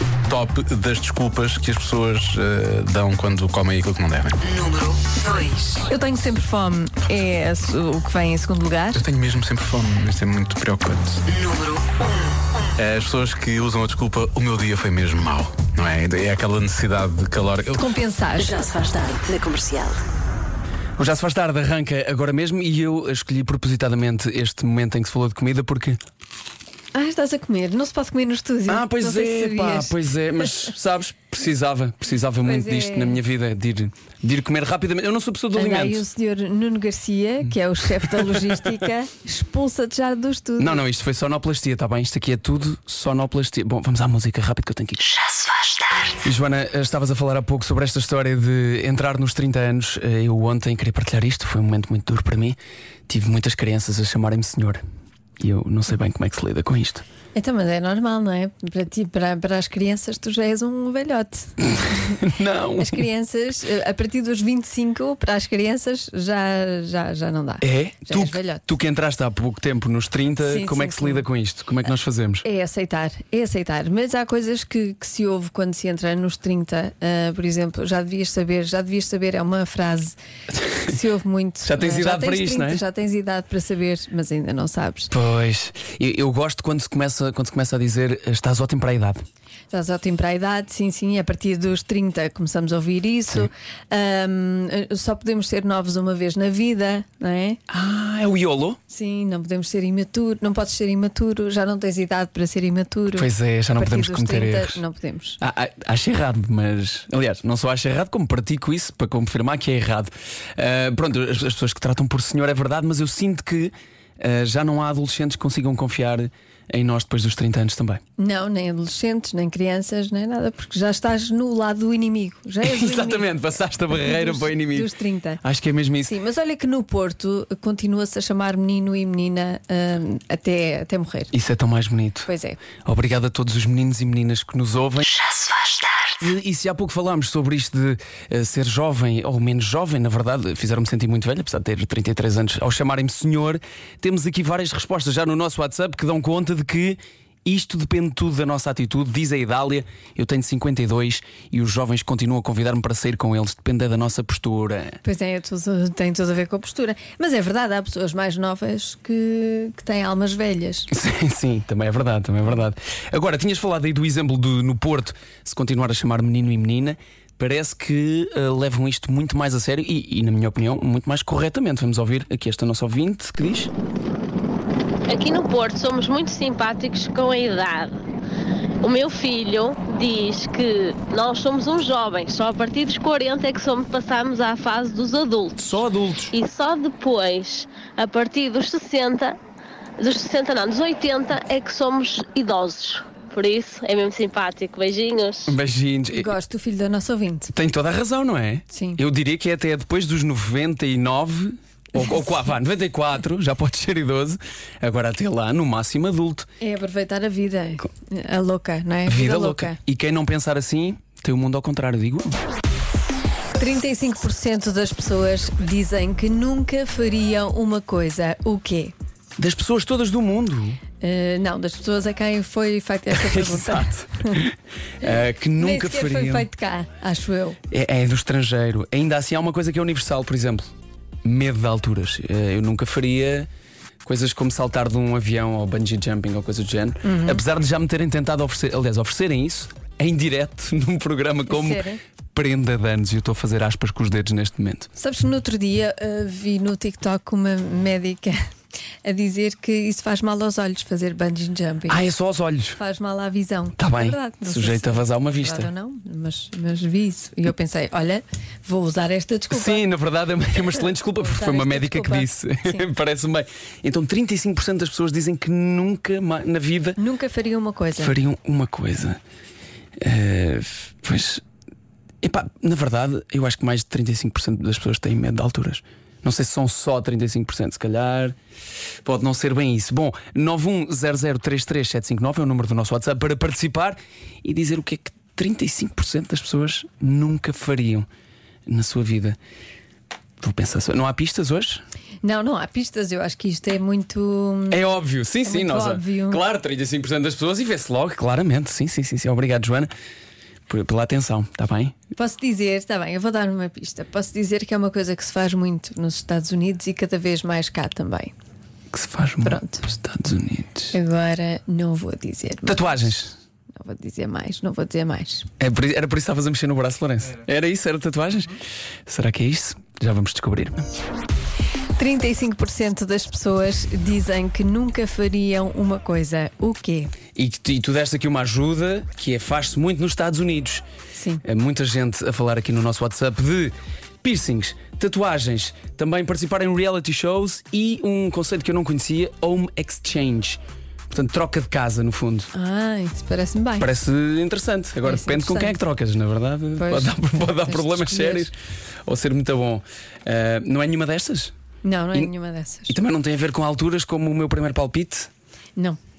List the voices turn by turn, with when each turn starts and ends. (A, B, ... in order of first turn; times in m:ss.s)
0:00.3-0:04.4 A
0:04.5-0:05.6 B
0:05.7-0:09.0 C
0:09.0-0:11.2 A
0:11.3-0:11.8 B
0:12.8-0:17.8 A
0:17.8-0:18.6 C
0:18.4-0:20.0 B
0:21.0-0:26.0 D
0:26.9-0:30.7 C
0:28.7-0:36.0 D
0:32.4-0:33.2 C
0:35.5-0:40.8 C
0:38.0-0:38.5 D
0:40.6-0:45.1 D
0:45.4-0:45.8 B
0:46.2-0:52.6 D
0:53.1-0:54.8 D
0:55.4-0:57.0 D
0:57.4-1:08.7 C
1:02.2-1:03.1 D
1:07.6-1:12.4 D
1:10.4-1:11.3 C
1:12.4-1:20.2 C
1:20.7-1:25.1 C
1:21.7-1:22.8 D
1:25.1-1:29.2 D
1:29.7-1:37.6 C
1:37.7-1:38.8 D
1:38.9-1:45.4 C
1:43.1-1:44.8 D
1:45.4-1:58.0 D
1:58.2-2:05.4 C
2:02.6-2:06.2 D
2:06.1-2:11.3 C
2:11.3-2:12.3 D
2:12.3-2:12.6 C
2:12.8-2:15.2 D
2:15.5-2:15.9 B
2:16.2-2:35.0 D
2:35.0-2:40.9 C
2:40.9-2:53.7 D
2:55.1-2:58.0 E
2:58.8-3:05.8 E
3:05.6-3:06.4 D
3:06.3-3:09.4 E
3:10.0-3:15.6 E
3:15.5-3:16.3 D
3:16.1-3:17.5 C
3:17.5-3:26.5 D
3:18.7-3:19.0 C
3:26.6-3:29.8 C
3:29.1-3:32.4 D
3:33.6-3:38.9 C
3:39.4-3:40.8 D
3:41.0-3:44.5 C
3:43.1-3:46.5 D
3:45.6-3:47.6 C
3:47.7-3:50.7 D
3:51.2-3:53.5 D
3:54.0-4:04.9 D
3:57.0-3:57.4 C
4:01.5-4:02.0 C
4:05.0-4:08.4 C
4:09.0-4:12.0 C
4:11.9-4:12.8 D
4:12.8-4:19.8 C
4:13.8-4:15.7 D
4:19.5-4:27.0 D
4:20.7-4:22.9 C
4:27.0-4:28.1 C
4:28.0-4:29.2 D
4:30.0-4:31.4 D
4:32.2-4:38.4 D
4:39.0-4:48.1 D
4:48.7-4:49.4 D
4:50.4-4:51.8 D
4:52.2-4:54.8 C
4:54.7-4:59.9 D
4:55.4-4:56.4 C
5:00.7-5:01.9 D
5:02.2-5:08.3 C
5:08.9-5:11.0 D
5:09.4-5:09.9 C
5:10.9-5:13.1 C
5:12.6-5:13.3 D
5:13.8-5:15.5 C
5:15.6-5:20.9 D
5:22.0-5:27.1 C
5:27.4-5:30.8 D
5:31.2-5:31.4 C
5:31.4-5:42.5 D
5:42.5-5:43.9 C
5:43.8-5:48.5 D
5:45.0-5:45.8 C
5:46.8-5:48.5 C
5:49.1-5:51.5 D
5:51.8-5:53.0 C
5:52.9-5:55.3 D